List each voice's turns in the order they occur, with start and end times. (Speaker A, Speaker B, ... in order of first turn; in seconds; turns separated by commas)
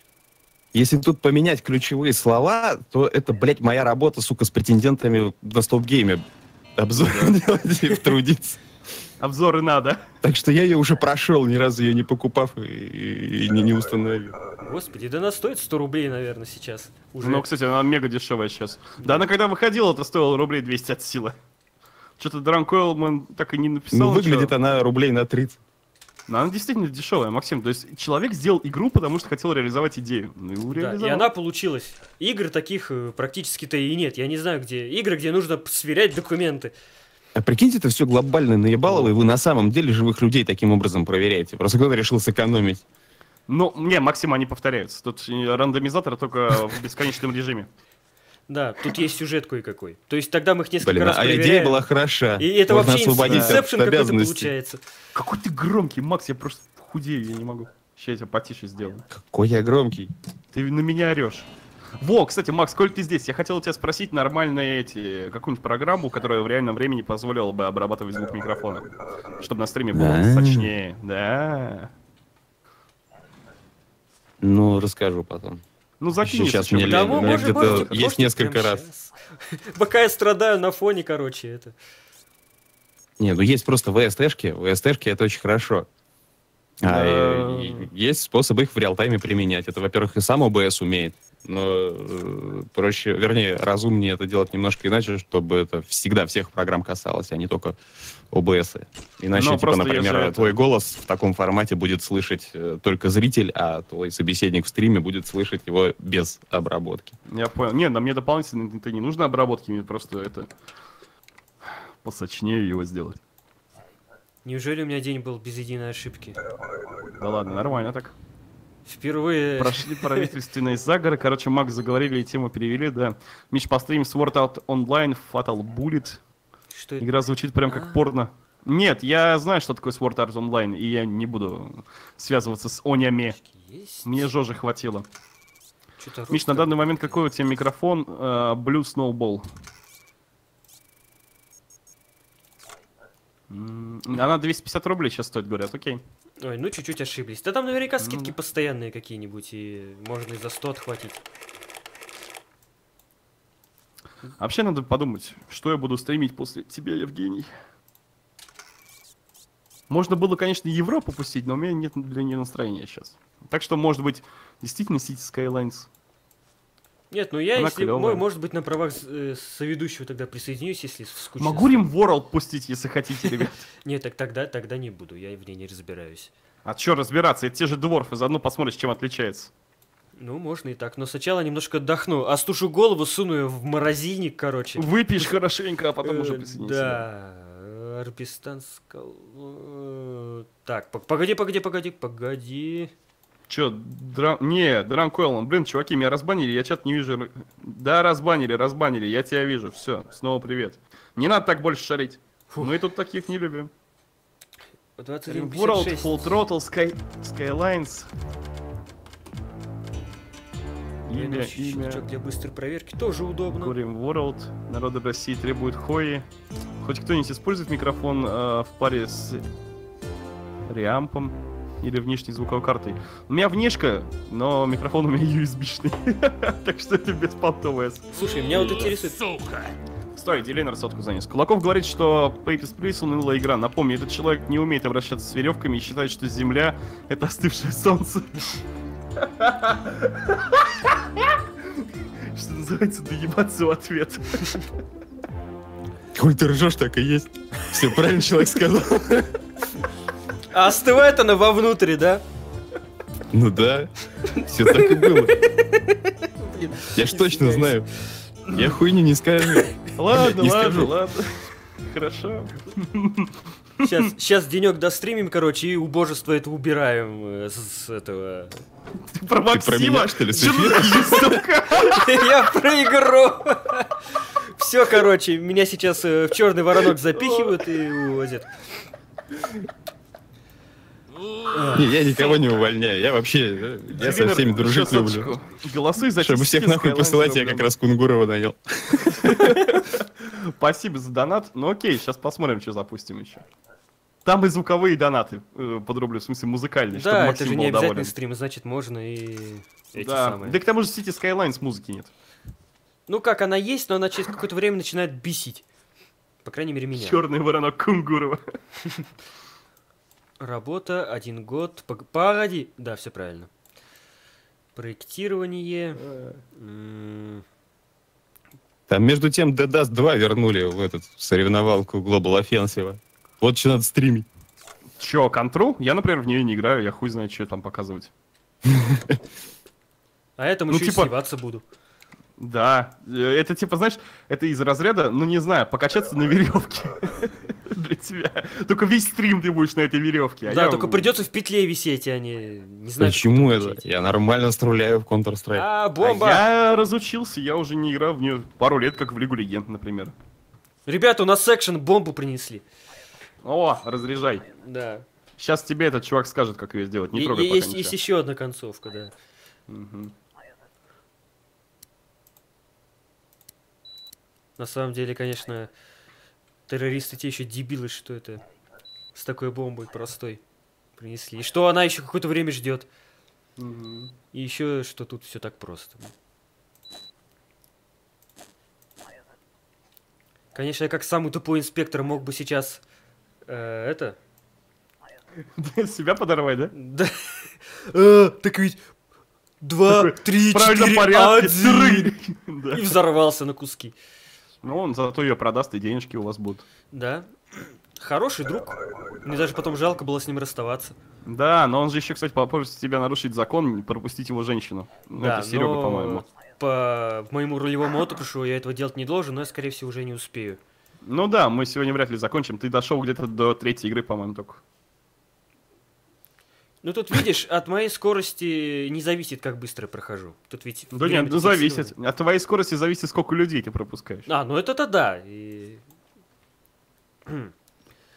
Speaker A: 0.7-6.2, Speaker A: 6.8-8.6, Speaker B: 6.9-8.1, Speaker B: 9.2-10.0, Speaker A: 10.2-14.3, Speaker C: 14.6-17.4, Speaker B: 17.2-21.4, Speaker B: 22.2-24.5, Speaker A: 23.9-25.6, Speaker B: 26.3-31.3, Speaker C: 30.7-36.7, Speaker A: 37.3-42.8, Speaker B: 38.9-39.1, Speaker B: 43.5-47.7, Speaker C: 48.5-51.8, Speaker A: 50.8-54.5, Speaker C: 52.4-54.8, Speaker B: 53.2-53.6, Speaker B: 55.1-59.0, Speaker A: 59.1-60.1, Speaker B: 60.5-61.5, Speaker B: 62.0-68.8, Speaker B: 69.4-71.9, Speaker A: 69.9-70.7, Speaker A: 74.4-75.6, Speaker B: 76.0-78.0, Speaker A: 76.2-78.8, Speaker C: 76.8-81.7, Speaker A: 83.2-85.9, Speaker A: 86.8-97.8, Speaker B: 86.8-87.9, Speaker A: 98.3-107.2, Speaker B: 99.3-100.6, Speaker B: 107.3-110.5, Speaker B: 111.6-113.2, Speaker C: 114.4-116.4, Speaker B: 117.2-118.2, Speaker C: 118.8-120.3, Speaker B: 119.6-126.2, Speaker C: 126.7-127.1, Speaker B: 127.0-133.4, Speaker C: 127.6-128.1, Speaker C: 133.3-134.3, Speaker B: 134.0-135.1, Speaker C: 136.0-137.2, Speaker B: 136.3-139.5, Speaker B: 143.5-146.0, Speaker C: 146.4-151.2, Speaker B: 148.0-148.3, Speaker B: 154.4-157.5, Speaker B: 159.9-165.9, Speaker C: 167.1-171.9, Speaker B: 167.6-168.2, Speaker B: 171.4-173.7, Speaker C: 173.8-176.3, Speaker B: 176.6-179.5, Speaker C: 180.2-185.3, Speaker B: 184.8-187.1, Speaker C: 186.0-192.9, Speaker B: 193.5-203.7, Speaker C: 205.0-206.4, Speaker B: 205.3-208.1, Speaker B: 211.1-212.1, Speaker C: 211.1-213.7, Speaker B: 213.5-216.2, Speaker B: 216.8-219.4, Speaker B: 220.7-229.0, Speaker C: 228.1-229.5, Speaker B: 230.1-238.5, Speaker B: 239.1-244.6, Speaker A: 246.1-249.3, Speaker C: 250.5-252.2, Speaker A: 253.3-255.4, Speaker C: 254.3-257.8, Speaker A: 256.9-257.9, Speaker A: 258.4-260.9, Speaker B: 260.0-264.1, Speaker C: 263.8-268.6, Speaker B: 269.0-272.3, Speaker A: 269.5-271.4, Speaker C: 270.3-278.5, Speaker B: 277.1-277.6, Speaker C: 281.5-281.9, Speaker A: 281.7-285.3, Speaker B: 283.9-287.7, Speaker A: 286.2-289.8, Speaker B: 289.1-293.4, Speaker B: 294.2-298.1, Speaker C: 296.9-300.6, Speaker B: 299.9-302.1, Speaker C: 303.1-305.6, Speaker C: 306.4-307.2, Speaker B: 306.9-308.4, Speaker C: 310.4-313.5, Speaker C: 314.8-316.0, Speaker B: 316.0-316.4, Speaker C: 316.5-317.4, Speaker A: 318.9-324.2, Speaker B: 325.0-328.1, Speaker A: 328.7-329.2, Speaker C: 330.4-331.6, Speaker B: 330.7-331.1, Speaker B: 332.4-341.1, Speaker C: 340.4-343.9, Speaker A: 343.0-345.6, Speaker C: 345.5-346.4, Speaker B: 346.0-350.1, Speaker C: 350.9-352.6, Speaker B: 353.4-354.4, Speaker C: 354.6-355.0, Speaker B: 355.4-357.9, Speaker C: 357.1-359.1, Speaker B: 359.7-360.1, Speaker C: 364.6-365.7, Speaker C: 366.7-368.4, Speaker C: 369.1-370.4, Speaker C: 371.0-372.9, Speaker B: 373.6-374.1, Speaker C: 374.3-376.1, Speaker C: 380.5-382.8, Speaker C: 383.5-384.2, Speaker B: 385.4-386.7, Speaker C: 386.7-388.8, Speaker C: 389.6-392.1, Speaker B: 389.9-392.9, Speaker C: 392.7-393.9, Speaker B: 394.6-396.6, Speaker C: 396.9-400.9, Speaker B: 401.2-406.2, Speaker C: 405.2-410.6, Speaker B: 411.0-414.6, Speaker C: 416.8-421.9, Speaker B: 420.9-424.3, Speaker C: 424.2-425.8, Speaker C: 427.3-427.5